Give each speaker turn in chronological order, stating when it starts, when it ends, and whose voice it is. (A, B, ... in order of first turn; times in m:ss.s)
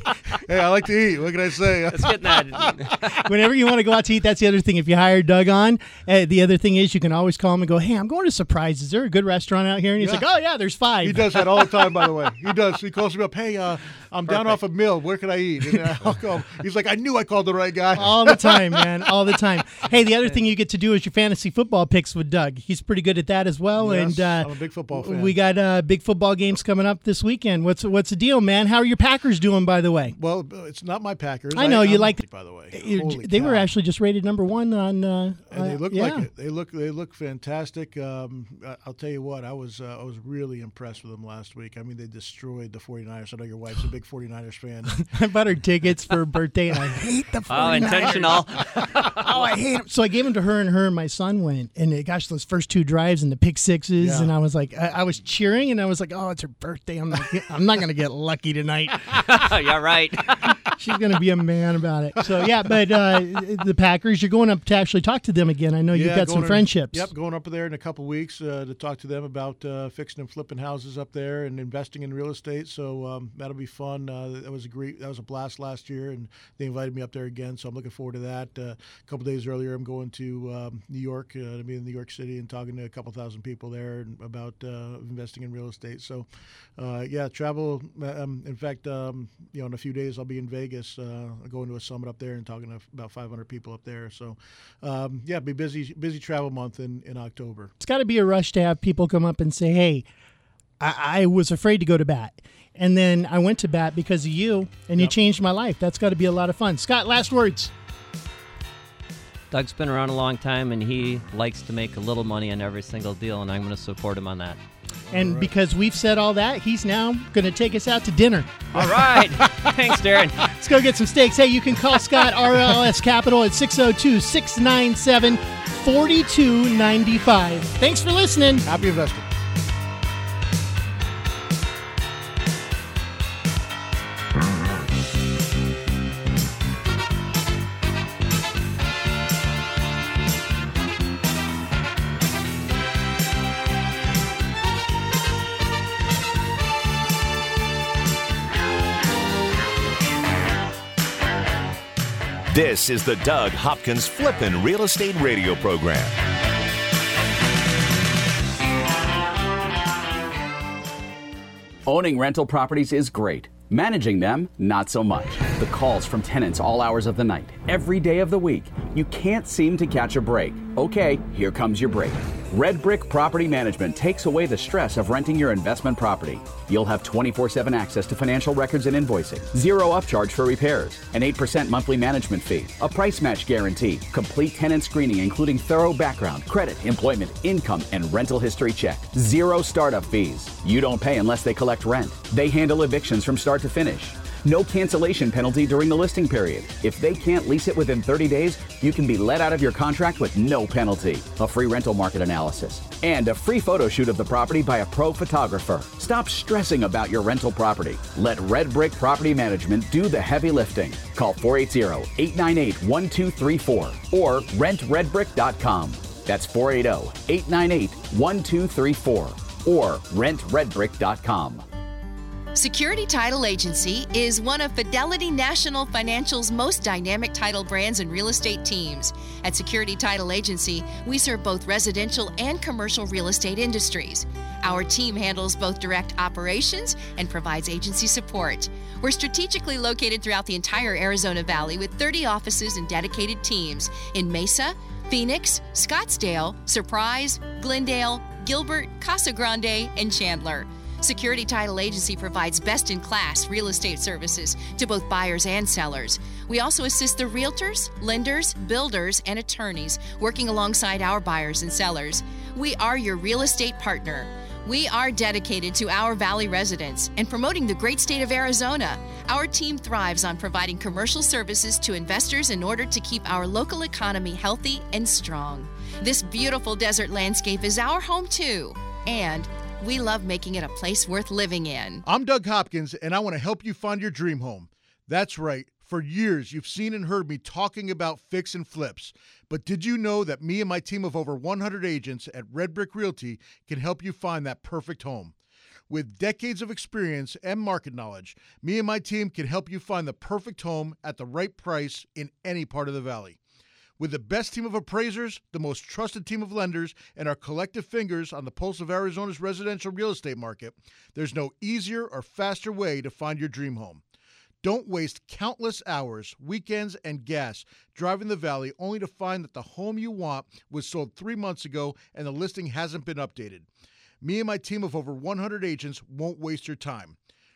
0:00.3-0:02.8 A
0:01.9-0:03.2 B
0:03.1-0:11.8 C
0:10.0-0:10.2 A
0:11.0-0:19.4 A
0:17.9-0:30.2 C
0:23.8-0:25.4 A
0:30.1-0:33.7 A
0:31.5-0:36.3 C
0:35.5-0:45.1 A
0:45.0-0:59.4 C
0:47.5-0:49.4 B
0:54.0-0:54.3 A
0:59.1-1:00.5 B
1:00.6-1:07.1 C
1:05.9-1:37.7 A
1:37.8-1:40.0 C
1:40.8-1:47.7 C
1:49.5-1:54.6 B
1:55.0-1:55.5 A
1:55.1-1:58.9 C
1:58.7-2:00.4 B
1:58.8-1:59.7 A
2:00.4-2:08.6 C
2:02.5-2:02.8 A
2:08.6-2:09.4 A
2:32.5-2:36.2 D
2:41.8-3:41.6 E
3:42.5-4:42.0 F
4:42.0-4:55.3 A
4:55.9-5:03.4 A
5:04.0-5:14.0 A
5:14.6-5:23.7 A
5:24.2-5:27.2 A